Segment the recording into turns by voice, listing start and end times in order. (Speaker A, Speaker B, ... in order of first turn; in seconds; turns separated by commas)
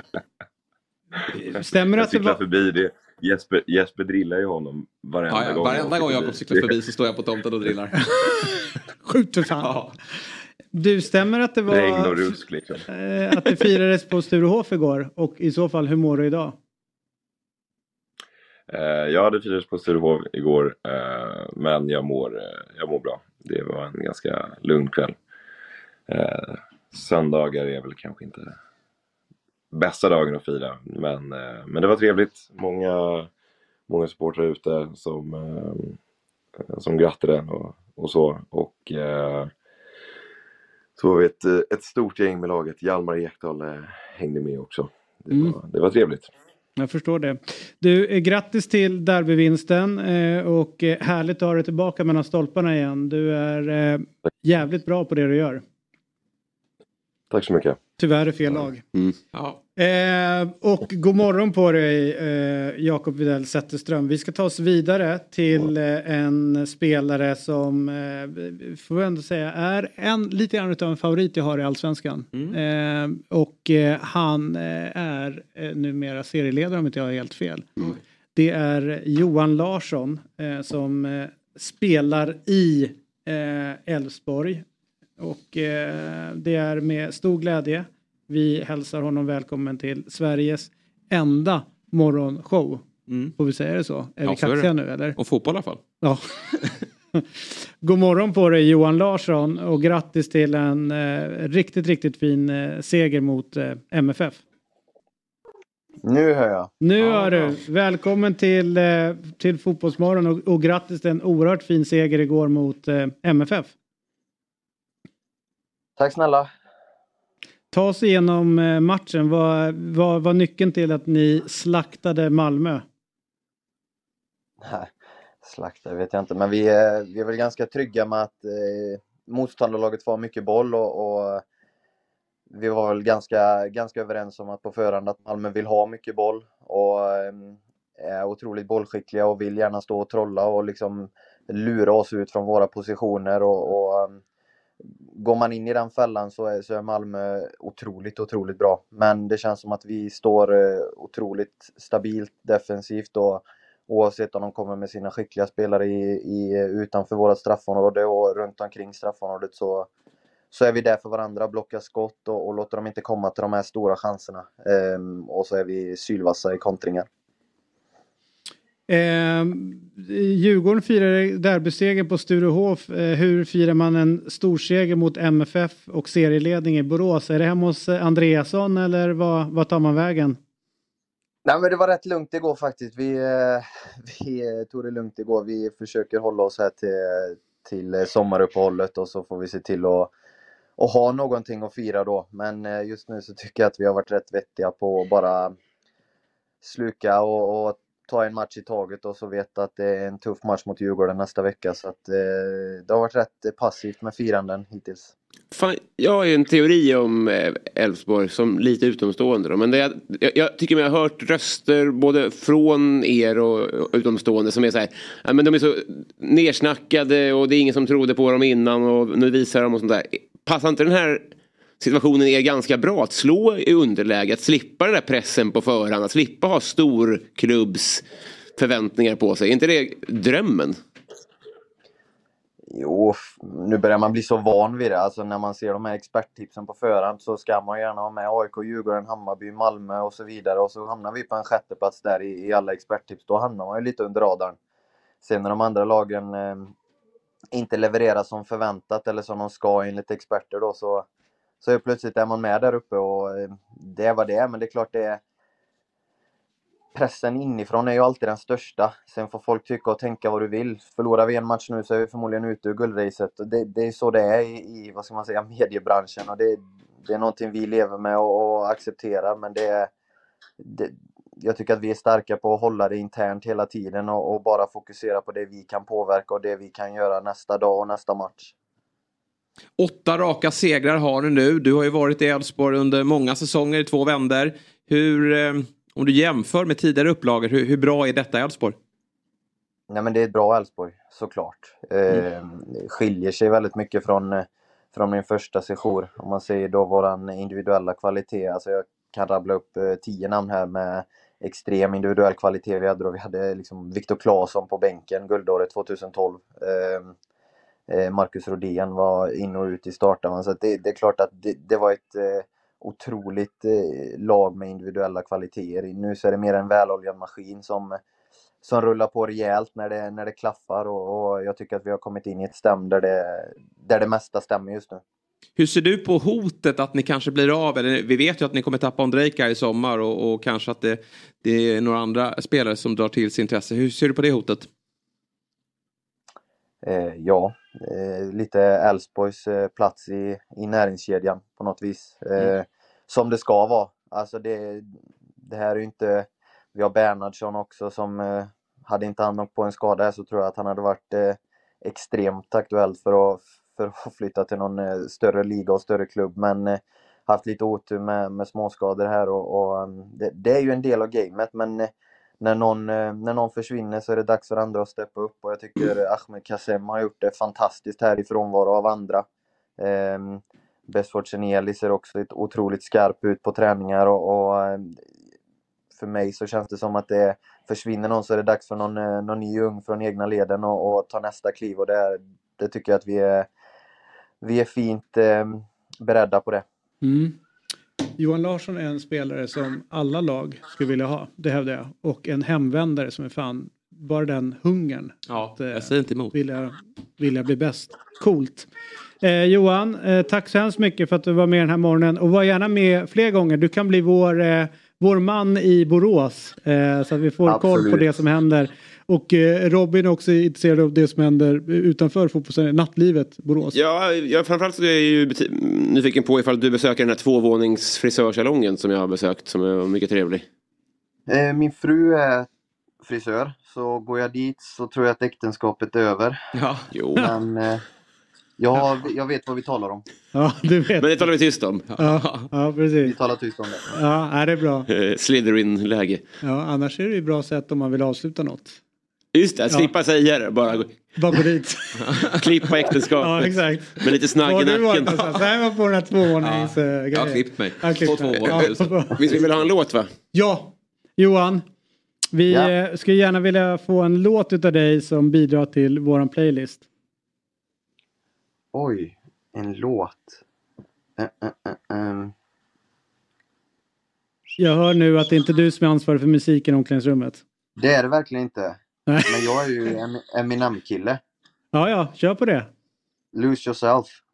Speaker A: 1.3-2.4, Speaker B: 1.8-6.8, Speaker C: 5.3-8.0, Speaker A: 8.1-8.4, Speaker A: 9.0-9.7, Speaker C: 9.6-9.9, Speaker A: 10.7-16.6, Speaker B: 11.7-12.9, Speaker B: 18.7-25.2, Speaker B: 26.1-28.6, Speaker B: 29.7-33.3, Speaker B: 33.9-36.0, Speaker B: 36.7-39.5, Speaker B: 41.0-46.3, Speaker A: 46.8-55.6, Speaker B: 57.3-57.8, Speaker A: 58.0-58.8, Speaker C: 59.3-59.6, Speaker A: 59.8-77.7, Speaker A: 78.3-84.6, Speaker A: 85.2-92.8, Speaker C: 93.1-93.3, Speaker A: 93.4-95.2, Speaker C: 94.2-95.8, Speaker A: 96.0-96.3, Speaker A: 97.8-104.4, Speaker D: 106.0-106.7, Speaker A: 106.8-113.7, Speaker C: 107.0-107.5, Speaker D: 116.0-116.5, Speaker A: 117.7-122.8, Speaker D: 124.6-124.9, Speaker D: 125.4-131.4, Speaker D: 132.5-144.2, Speaker D: 145.2-159.9, Speaker D: 160.5-167.1, Speaker A: 168.9-180.4, Speaker D: 181.4-190.1, Speaker D: 190.8-195.6, Speaker D: 196.6-205.1, Speaker E: 205.5-221.3, Speaker E: 221.8-230.8, Speaker D: 232.7-244.6, Speaker D: 245.2-246.7, Speaker D: 247.5-251.1, Speaker D: 251.6-255.2, Speaker D: 256.9-269.9, Speaker D: 270.6-278.5, Speaker C: 279.8-288.8, Speaker D: 289.9-307.1, Speaker D: 307.9-318.0, Speaker D: 318.6-325.0, Speaker C: 325.6-334.7, Speaker D: 336.9-369.2, Speaker D: 369.8-375.0, Speaker D: 375.9-383.5, Speaker D: 384.4-386.6, Speaker A: 387.0-387.4, Speaker A: 388.2-398.7, Speaker C: 395.3-396.3, Speaker A: 399.2-413.8, Speaker D: 407.5-408.1, Speaker E: 413.7-420.4, Speaker D: 421.3-422.5, Speaker D: 423.0-426.4, Speaker C: 426.5-427.3, Speaker E: 426.9-427.3, Speaker D: 427.2-427.8, Speaker D: 428.6-430.1, Speaker A: 430.3-431.3, Speaker E: 431.0-431.9, Speaker C: 432.0-432.5, Speaker A: 432.0-433.2, Speaker D: 433.0-434.0, Speaker A: 433.9-434.9, Speaker E: 434.9-436.2, Speaker A: 436.4-438.8, Speaker E: 439.3-441.1, Speaker A: 441.2-442.1, Speaker E: 442.3-445.3, Speaker A: 443.2-449.2, Speaker C: 446.4-449.2, Speaker E: 448.4-450.1, Speaker A: 450.3-451.6, Speaker A: 452.3-456.8, Speaker D: 458.7-460.4, Speaker D: 461.2-462.3, Speaker A: 464.6-467.4, Speaker D: 467.8-471.2, Speaker A: 469.1-469.5, Speaker A: 471.7-472.7, Speaker D: 473.3-474.2